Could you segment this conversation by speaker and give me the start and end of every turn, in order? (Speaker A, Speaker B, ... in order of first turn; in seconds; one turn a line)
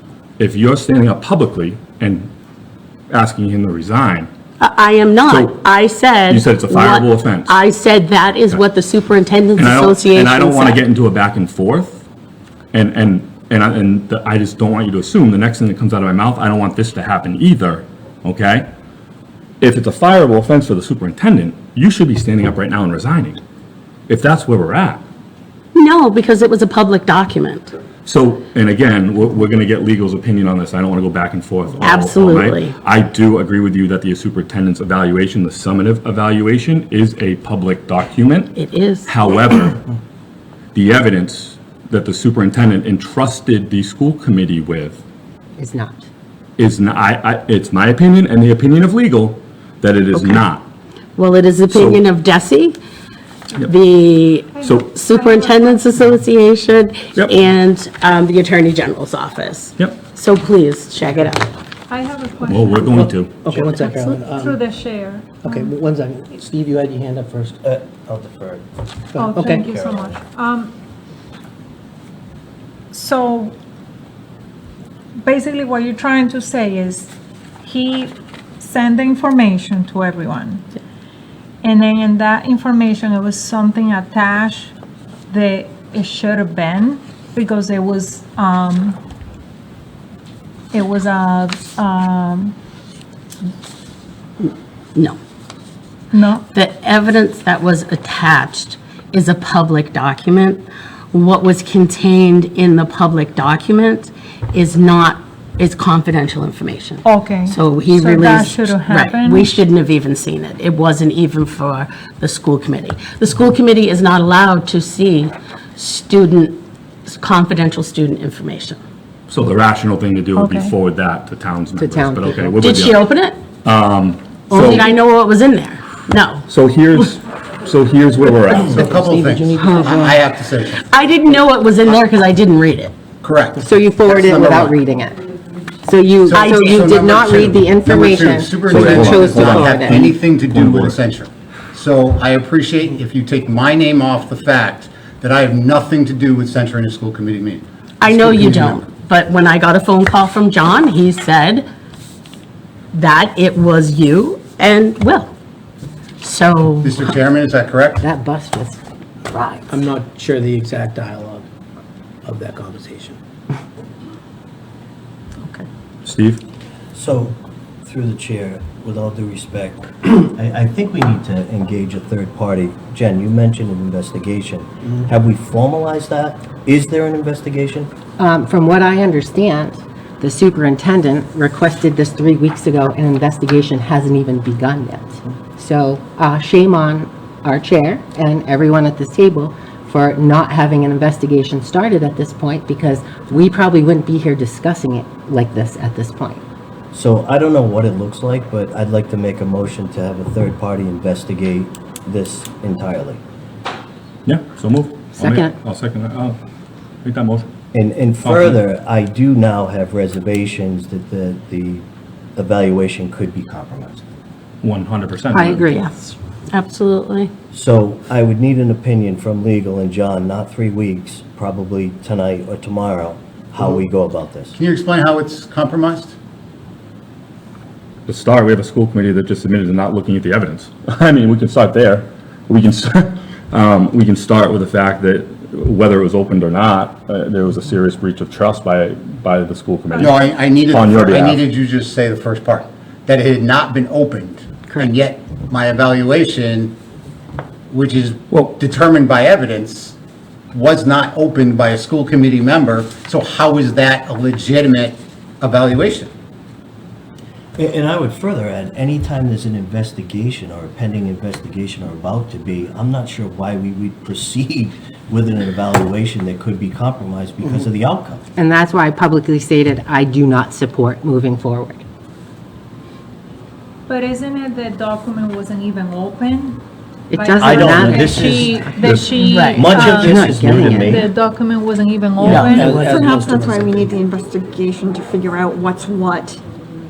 Speaker A: 0.4-2.3
Speaker A: 3.1-4.3
Speaker B: 4.6-10.8
Speaker A: 5.3-5.6
Speaker A: 6.2-7.6
Speaker A: 9.6-12.0
Speaker A: 12.7-18.7
Speaker A: 19.6-23.4
Speaker A: 24.1-25.0
Speaker B: 25.7-27.7
Speaker A: 28.0-38.5
Speaker B: 31.8-32.8
Speaker B: 38.5-39.6
Speaker A: 39.1-39.8
Speaker A: 40.7-45.0
Speaker C: 45.6-46.1
Speaker A: 46.6-50.6
Speaker B: 50.1-50.4
Speaker B: 51.1-52.8
Speaker A: 51.7-52.0
Speaker B: 53.6-61.5
Speaker D: 54.6-55.9
Speaker A: 54.6-54.9
Speaker D: 61.9-65.8
Speaker A: 62.4-63.7
Speaker E: 62.9-64.6
Speaker E: 65.4-67.5
Speaker F: 67.6-68.7
Speaker E: 69.1-69.6
Speaker D: 69.2-70.7
Speaker F: 69.3-70.2
Speaker D: 72.9-73.5
Speaker D: 75.2-77.1
Speaker D: 77.6-80.6
Speaker D: 81.6-84.7
Speaker D: 85.3-89.0
Speaker D: 90.7-92.5
Speaker B: 94.4-95.2
Speaker D: 96.1-96.5
Speaker B: 96.5-118.8
Speaker D: 107.0-109.6
Speaker A: 119.3-123.0
Speaker D: 120.3-120.8
Speaker C: 121.8-122.6
Speaker B: 122.6-123.4
Speaker A: 123.6-124.8
Speaker B: 124.5-126.5
Speaker C: 124.5-124.9
Speaker A: 126.5-129.0
Speaker G: 128.5-130.8
Speaker E: 128.8-130.2
Speaker C: 129.5-130.0
Speaker B: 130.8-132.9
Speaker G: 133.2-134.8
Speaker C: 133.6-135.2
Speaker C: 135.8-140.1
Speaker G: 136.3-148.8
Speaker B: 136.3-137.1
Speaker A: 138.7-141.0
Speaker B: 148.0-151.7
Speaker B: 152.9-155.3
Speaker B: 156.2-157.2
Speaker G: 156.8-158.0
Speaker C: 158.0-158.8
Speaker C: 159.3-159.7
Speaker E: 159.7-161.5
Speaker E: 162.2-163.2
Speaker A: 166.0-166.4
Speaker F: 166.9-177.9
Speaker C: 178.2-196.4
Speaker F: 196.9-203.2
Speaker A: 204.2-206.4
Speaker C: 205.2-205.5
Speaker A: 207.0-207.5
Speaker F: 207.7-211.8
Speaker A: 208.2-208.6
Speaker F: 212.3-214.0
Speaker A: 214.6-215.7
Speaker C: 215.3-215.9
Speaker B: 215.7-217.3
Speaker F: 217.5-224.5
Speaker G: 224.5-226.1
Speaker A: 228.1-241.4
Speaker D: 239.9-240.5
Speaker G: 240.0-246.8
Speaker C: 244.7-244.9
Speaker G: 247.7-249.9
Speaker A: 248.3-248.6
Speaker G: 250.5-256.1
Speaker F: 257.6-268.2
Speaker C: 268.4-271.8
Speaker D: 273.9-276.6
Speaker C: 277.1-279.0
Speaker D: 277.1-283.2
Speaker F: 277.4-281.1
Speaker B: 279.2-279.8
Speaker C: 279.9-281.0
Speaker E: 282.2-284.0
Speaker B: 282.2-282.7
Speaker H: 282.7-286.4